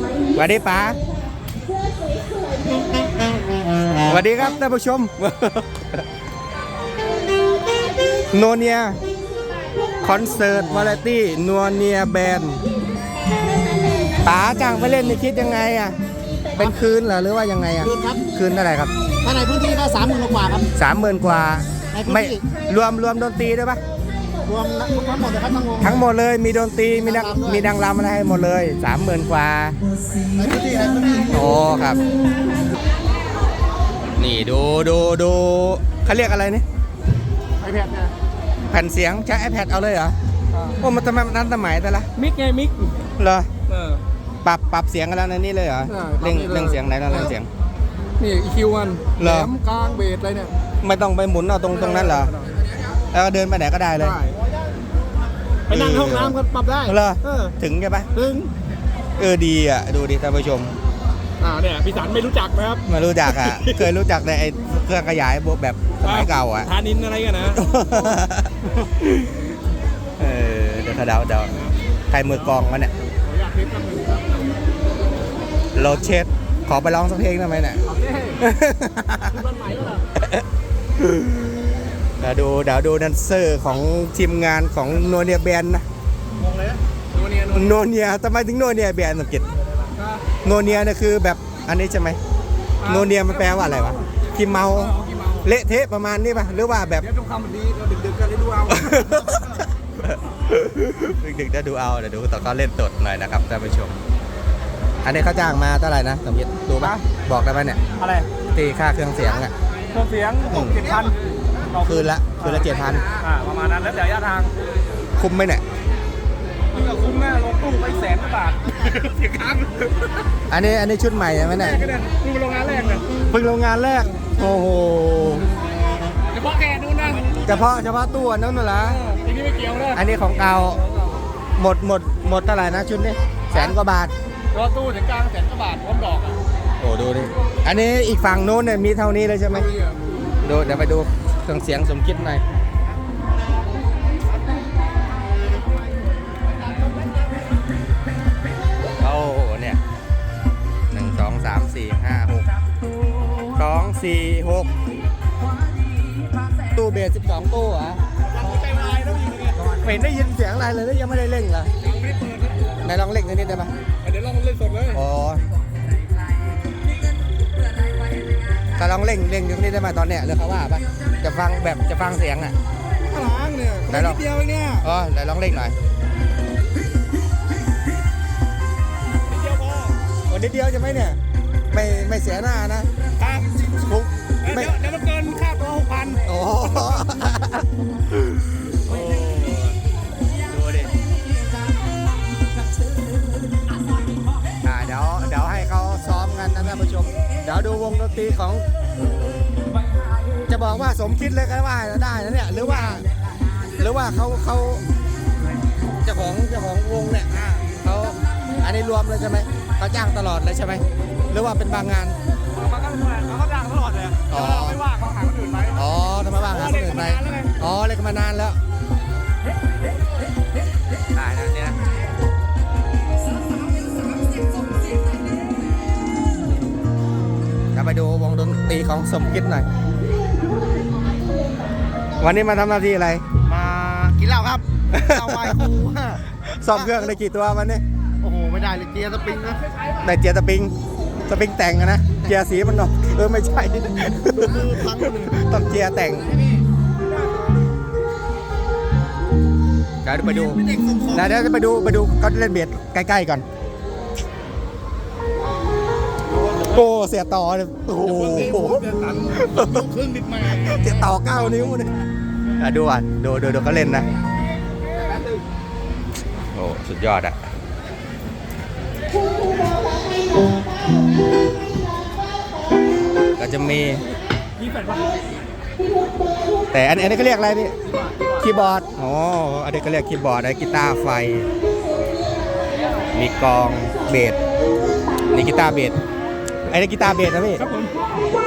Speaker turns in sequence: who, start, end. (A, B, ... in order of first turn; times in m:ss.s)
0:00.4-0:01.0 A
0:04.0-0:06.0 A
0:08.3-0:09.0 A
0:10.0-0:12.6 A
0:14.2-0:16.0 A
0:16.6-0:16.8 B
0:16.6-0:18.9 A
0:17.8-0:18.2 B
0:19.2-0:20.7 B
0:20.8-0:23.8 A
0:21.9-0:22.5 B
0:24.4-0:26.0 B
0:25.8-0:29.8 A
0:26.9-0:27.6 B
0:30.4-0:31.4 B
0:31.3-0:32.0 A
0:34.2-0:36.6 A
0:37.6-0:38.1 C
0:38.7-0:40.2 A
0:40.8-0:42.1 A
0:42.2-0:43.0 C
0:43.2-0:43.5 A
0:43.7-0:44.0 C
0:44.4-0:47.5 A
0:45.9-0:47.3 C
0:48.2-0:50.5 C
0:49.2-0:49.5 A
0:50.8-0:52.3 A
0:51.7-0:52.5 C
0:53.1-0:54.2 A
0:54.0-0:54.4 C
0:55.7-0:57.6 C
0:55.7-0:58.1 A
0:58.1-0:58.5 C
0:59.2-1:00.7 A
1:01.4-1:03.9 C
1:02.9-1:06.7 A
1:06.0-1:08.2 C
1:07.5-1:09.5 A
1:10.2-1:11.5 A
1:11.5-1:14.5 C
1:12.1-1:12.9 A
1:15.8-1:17.8 A
1:17.8-1:18.4 C
1:18.4-1:19.4 A
1:19.2-1:20.1 C
1:20.2-1:20.4 A
1:21.0-1:21.6 A
1:22.2-1:25.8 A
1:26.5-1:27.8 C
1:27.5-1:29.5 A
1:29.9-1:30.4 C
1:30.4-1:32.2 A
1:32.8-1:34.1 C
1:32.8-1:37.1 A
1:34.7-1:35.5 C
1:37.0-1:38.9 C
1:38.2-1:38.6 B
1:38.7-1:44.0 A
1:45.0-1:47.8 A
1:46.8-1:47.0 C
1:48.0-1:48.3 C
1:48.5-1:49.5 A
1:49.9-1:51.2 C
1:50.4-1:50.9 A
1:50.7-1:51.1 B
1:51.7-1:54.5 C
1:51.8-1:53.1 A
1:55.2-1:55.6 A
1:56.7-2:00.3 C
2:00.5-2:01.8 A
2:01.5-2:03.1 C
2:03.2-2:05.5 A
2:06.3-2:07.4 C
2:07.4-2:09.0 A
2:08.9-2:10.0 C
2:09.9-2:10.8 A
2:11.6-2:14.1 A
2:14.5-2:16.4 C
2:16.8-2:19.7 A
2:19.5-2:20.0 C
2:20.4-2:22.4 A
2:29.0-2:29.8 A
2:30.9-2:32.5 A
2:33.5-2:34.7 A
2:36.6-2:38.0 A
2:38.3-2:39.8 C
2:39.6-2:41.7 A
2:41.8-2:42.9 C
2:42.8-2:43.7 A
2:44.0-2:45.0 C
2:44.9-2:45.4 A
2:48.8-2:52.6 A
2:53.0-2:54.9 C
2:53.9-2:54.2 A
2:54.8-2:55.8 A
2:59.3-3:00.0 C
3:00.3-3:01.2 A
3:01.7-3:02.9 A
3:03.2-3:03.6 C
3:03.8-3:04.7 A
3:04.4-3:06.2 C
3:06.2-3:09.8 A
3:10.5-3:10.9 A
3:14.6-3:18.6 A
3:20.5-3:23.1 A
3:23.8-3:24.8 A
3:26.0-3:32.2 A
3:32.5-3:35.8 C
3:34.3-3:34.8 A
3:35.8-3:38.6 A
3:36.5-3:37.6 C
3:41.1-3:41.8 A
3:47.7-3:49.7 A
3:52.2-3:53.2 A
3:53.4-3:57.1 B
3:54.9-3:55.6 A
3:56.4-3:57.8 A
3:58.2-3:59.6 B
4:00.0-4:00.7 A
4:01.3-4:06.3 A
4:04.4-4:05.3 B
4:10.0-4:13.4 A
4:10.4-4:11.4 B
4:16.7-4:19.8 A
4:18.0-4:20.9 C
4:20.5-4:21.9 A
4:22.6-4:24.1 A
4:26.5-4:27.4 A
4:33.4-4:34.0 A
4:34.6-4:35.2 C
4:36.7-4:37.7 A
4:37.9-4:38.4 C
4:38.4-4:41.5 A
4:43.1-4:44.4 A
4:45.3-4:46.0 A
4:46.7-4:47.6 A
4:47.6-4:47.9 C